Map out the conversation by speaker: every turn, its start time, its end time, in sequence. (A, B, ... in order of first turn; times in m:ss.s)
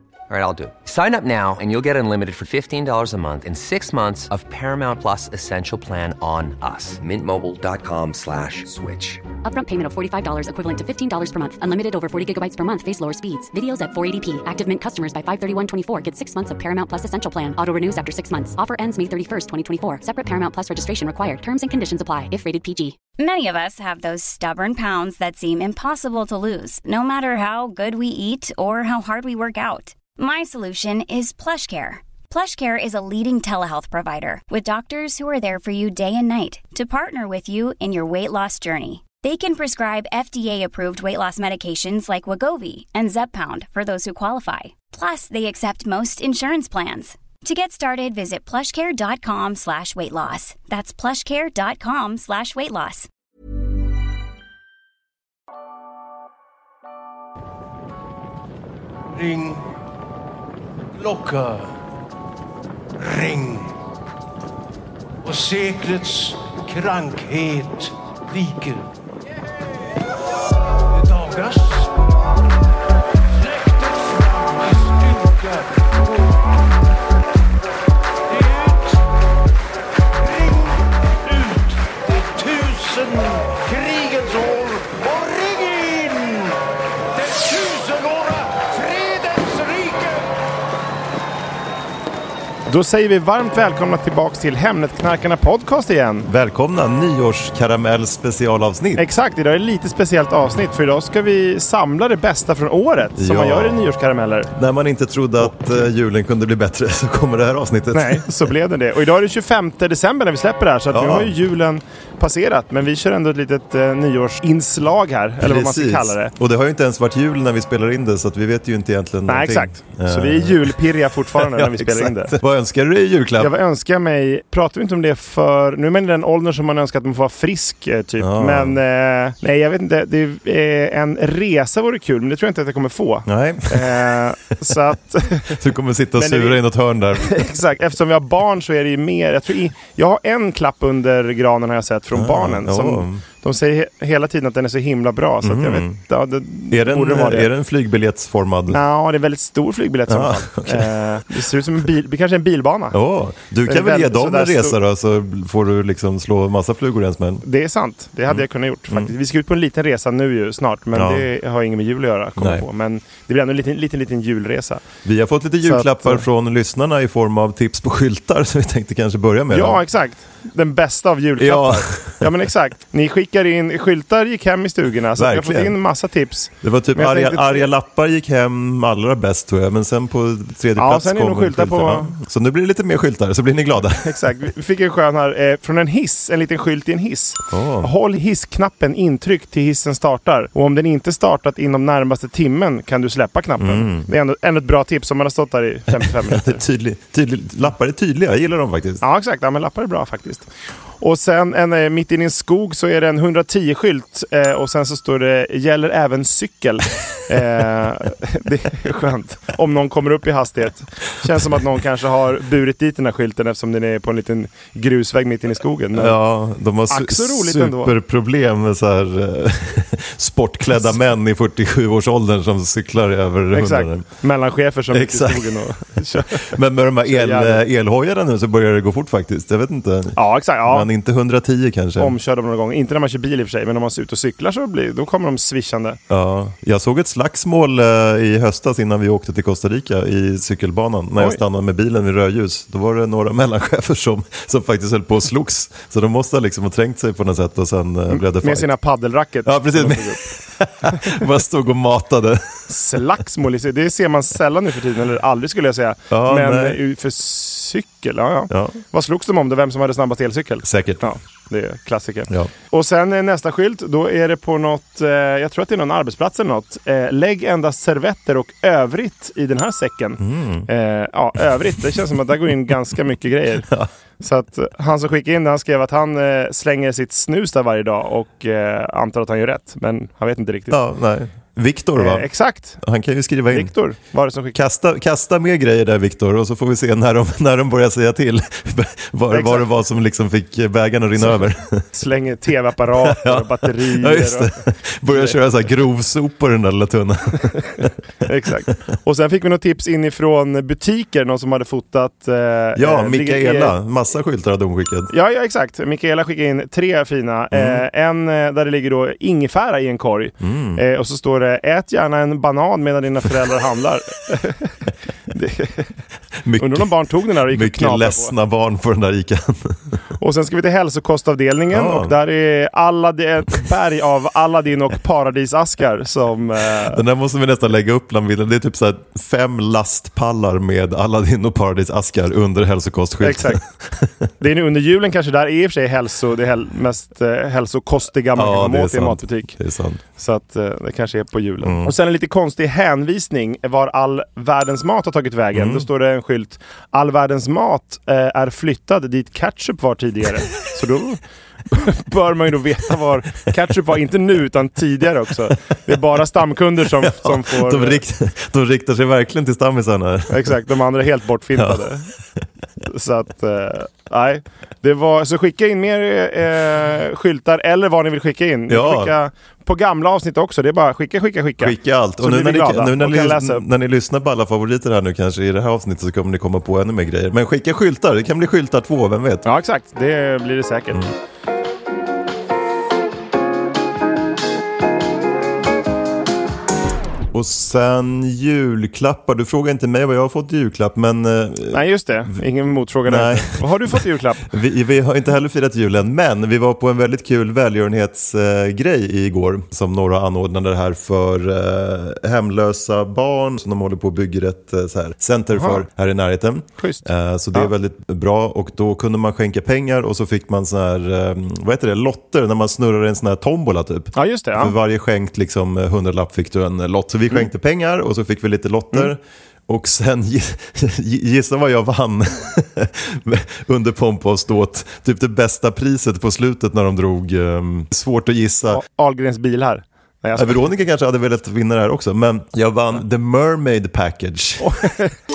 0:00.3-0:09.3 A
0:09.4-0:23.0 B
0:23.2-0:53.1 C
0:59.1-0:59.6 D
1:01.0-1:01.7 D
1:03.0-1:03.7 D
1:05.2-1:08.9 D
1:10.9-1:11.9 D
1:13.3-1:16.4 D
1:18.3-1:19.0 D
1:20.2-1:26.6 D
1:27.1-1:30.3 D
1:32.7-1:36.3 E
1:36.2-1:39.1 F
1:39.0-1:44.5 E
1:43.2-1:43.9 F
1:44.6-1:48.4 F
1:47.9-1:56.3 E
1:50.9-1:51.4 F
1:55.4-2:00.8 F
1:59.3-2:02.3 E
2:01.3-2:03.5 F
2:03.4-2:15.6 E
2:08.2-2:08.8 F
2:13.3-2:14.9 F
2:15.4-2:17.4 F
2:16.2-2:16.6 E
2:17.2-2:27.5 E
2:22.1-2:23.3 F
2:25.4-2:26.0 F
2:26.7-2:28.8 F
2:28.7-2:33.0 E
2:30.1-2:31.4 F
2:32.9-2:37.4 F
2:33.7-2:34.8 E
2:37.4-2:44.8 E
2:38.3-2:39.1 F
2:40.9-2:41.3 F
2:42.4-2:42.7 F
2:45.0-2:49.8 F
2:45.6-2:46.2 E
2:49.5-2:57.7 E
2:51.4-2:52.3 F
2:55.2-2:55.8 F
2:56.6-3:04.1 F
3:00.8-3:02.2 E
3:04.0-3:16.6 E
3:07.5-3:07.9 F
3:13.6-3:14.1 F
3:15.9-3:19.0 F
3:19.0-3:20.5 E
3:21.0-3:36.2 E
3:35.9-3:44.1 F
3:36.9-3:37.9 E
3:43.5-3:46.5 E
3:44.9-3:45.6 F
3:46.3-3:52.2 F
3:47.1-3:47.6 E
3:50.2-3:50.9 E
3:52.0-3:56.0 E
3:56.1-4:08.7 F
4:08.1-4:10.2 E
4:09.4-4:12.6 F
4:12.7-4:33.7 E
4:16.1-4:16.8 F
4:18.5-4:18.8 F
4:20.6-4:21.0 F
4:30.2-4:30.7 F
4:34.2-4:40.8 E
4:40.7-4:43.8 F
4:42.0-4:42.8 E
4:43.5-4:44.6 E
4:44.5-4:51.9 F
4:49.3-4:49.7 E
4:51.9-4:54.5 E
4:53.0-4:57.9 F
4:55.1-4:55.4 E
4:58.2-5:03.8 E
5:02.8-5:05.1 F
5:05.1-5:14.8 E
5:07.5-5:07.8 F
5:10.4-5:10.8 F
5:15.3-5:15.9 E
5:16.4-5:19.8 F
5:16.6-5:18.3 E
5:20.2-5:27.0 E
5:21.7-5:22.2 F
5:26.9-5:34.1 F
5:33.2-5:33.6 E
5:34.4-5:39.6 E
5:38.4-5:40.0 F
5:40.2-5:58.0 E
5:41.6-5:41.9 F
5:45.5-5:45.9 F
5:56.9-6:00.6 F
6:00.3-6:02.1 E
6:01.6-6:01.9 F
6:02.8-6:13.6 E
6:08.7-6:09.1 F
6:11.6-6:19.4 F
6:19.4-6:21.0 E
6:27.3-6:31.8 F
6:31.7-6:34.5 E
6:33.0-6:34.0 F
6:34.5-7:08.8 F
6:45.5-6:45.8 E
6:46.8-6:47.7 E
6:54.1-6:54.7 E
7:08.7-7:10.7 E
7:10.4-7:14.8 F
7:14.6-7:15.1 E